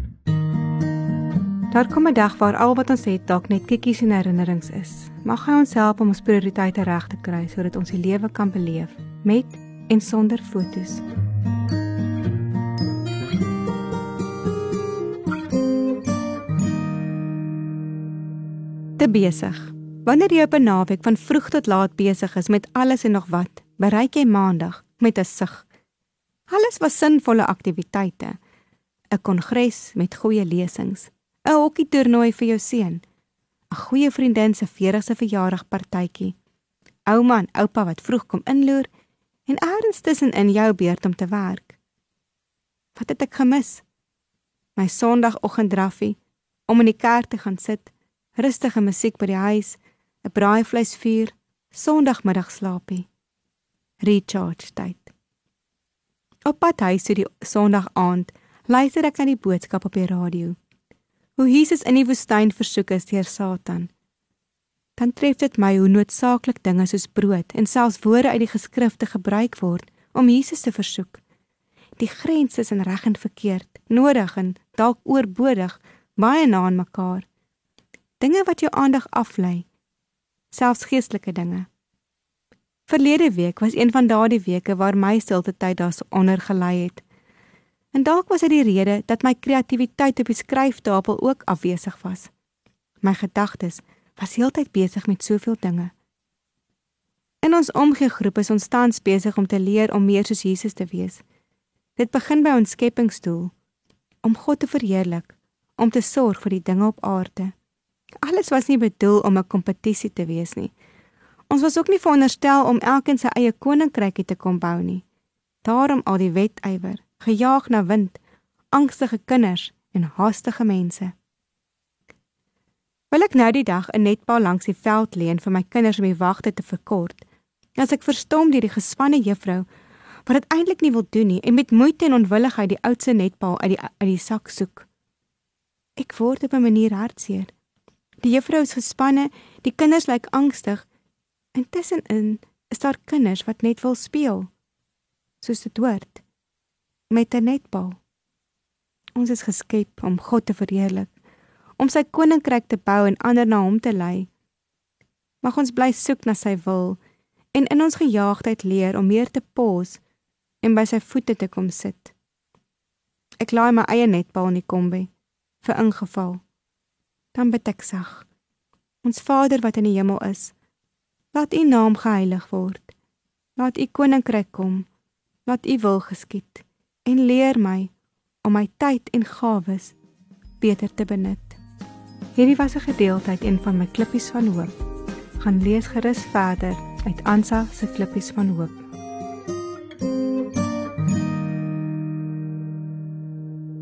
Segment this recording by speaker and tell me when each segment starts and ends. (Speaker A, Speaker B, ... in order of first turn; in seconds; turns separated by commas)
Speaker A: 1.7-11.0, Speaker A: 19.0-25.7, Speaker A: 26.5-28.4, Speaker A: 29.1-33.0, Speaker A: 33.7-36.4, Speaker A: 37.0-38.9, Speaker A: 39.5-41.8, Speaker A: 43.0-43.8, Speaker A: 44.8-53.1, Speaker A: 54.0-55.1, Speaker A: 56.5-60.6, Speaker A: 61.4-63.9, Speaker A: 65.0-71.2, Speaker A: 72.0-77.3, Speaker A: 78.2-79.7, Speaker A: 80.5-81.7, Speaker A: 82.9-87.0, Speaker A: 87.9-92.3, Speaker A: 93.0-95.9, Speaker A: 97.4-101.2, Speaker A: 102.0-103.5, Speaker A: 104.2-107.5, Speaker A: 108.2-110.7, Speaker A: 111.5-115.0, Speaker A: 115.6-118.2, Speaker A: 118.7-121.1, Speaker A: 123.1-127.2, Speaker A: 127.8-129.7, Speaker A: 130.2-134.9, Speaker A: 136.0-137.5, Speaker A: 138.2-140.9, Speaker A: 141.6-144.5, Speaker A: 145.4-146.2, Speaker A: 147.1-148.0, Speaker A: 149.2-151.1, Speaker A: 151.8-154.3, Speaker A: 155.4-157.0, Speaker A: 157.5-160.0, Speaker A: 160.6-162.1, Speaker A: 163.4-165.1, Speaker A: 165.6-166.4, Speaker A: 167.3-168.3, Speaker A: 169.0-170.5, Speaker A: 171.3-172.9, Speaker A: 173.6-174.9, Speaker A: 175.5-177.9, Speaker A: 178.4-180.0, Speaker A: 180.6-181.6, Speaker A: 182.4-184.8, Speaker A: 185.4-188.8